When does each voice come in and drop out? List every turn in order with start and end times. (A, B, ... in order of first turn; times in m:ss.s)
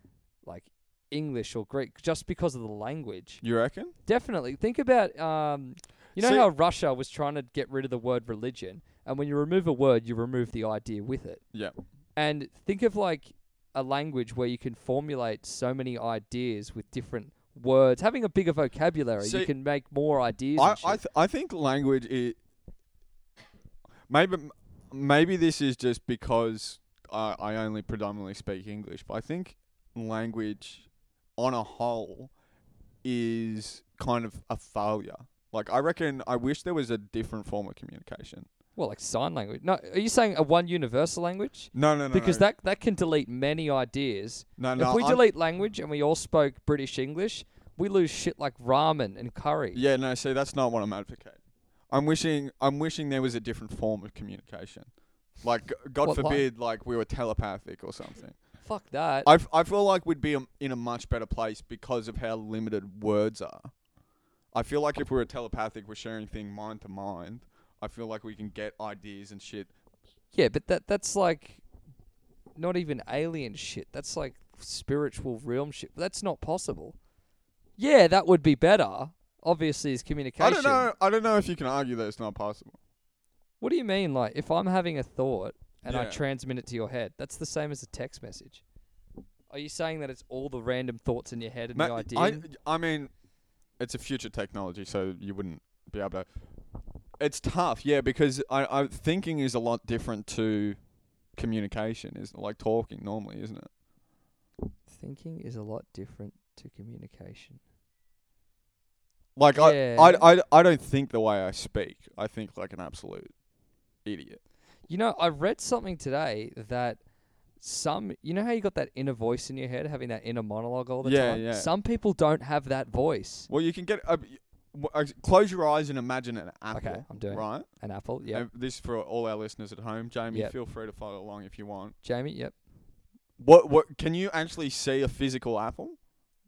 0:00.4-0:03.4 A
0:03.4-0:04.0 B
0:04.1-0:11.4 A
0:06.2-0:06.5 B
0:12.2-0:21.0 A
0:19.2-0:19.5 B
0:20.6-0:22.4 B
0:24.1-0:30.9 B
0:31.4-0:32.3 B
0:33.0-0:38.5 B
0:38.8-0:49.8 A
0:41.7-0:42.5 B
0:44.6-0:45.2 B
0:49.8-0:51.4 B
0:51.9-0:54.9 B
0:55.4-0:58.4 B
0:56.0-0:56.4 A
0:58.6-0:59.3 A
0:59.2-1:03.7 B
1:04.5-1:09.7 B
1:10.3-1:11.6 A
1:12.6-1:17.0 A
1:17.8-1:20.9 A
1:20.4-1:22.8 B
1:23.6-1:28.6 A
1:25.8-1:26.2 B
1:29.5-1:32.5 A
1:31.8-1:33.1 B
1:33.8-1:36.3 B
1:37.2-1:40.8 B
1:41.4-1:43.7 B
1:44.9-1:47.6 A
1:49.4-1:53.3 B
1:49.6-1:50.3 A
1:54.0-1:54.4 B
1:54.9-1:57.0 A
1:57.6-2:03.5 A
2:01.0-2:01.7 B
2:03.5-2:07.7 B
2:06.7-2:08.5 A
2:08.3-2:12.0 B
2:12.0-2:12.6 A
2:13.4-2:16.0 B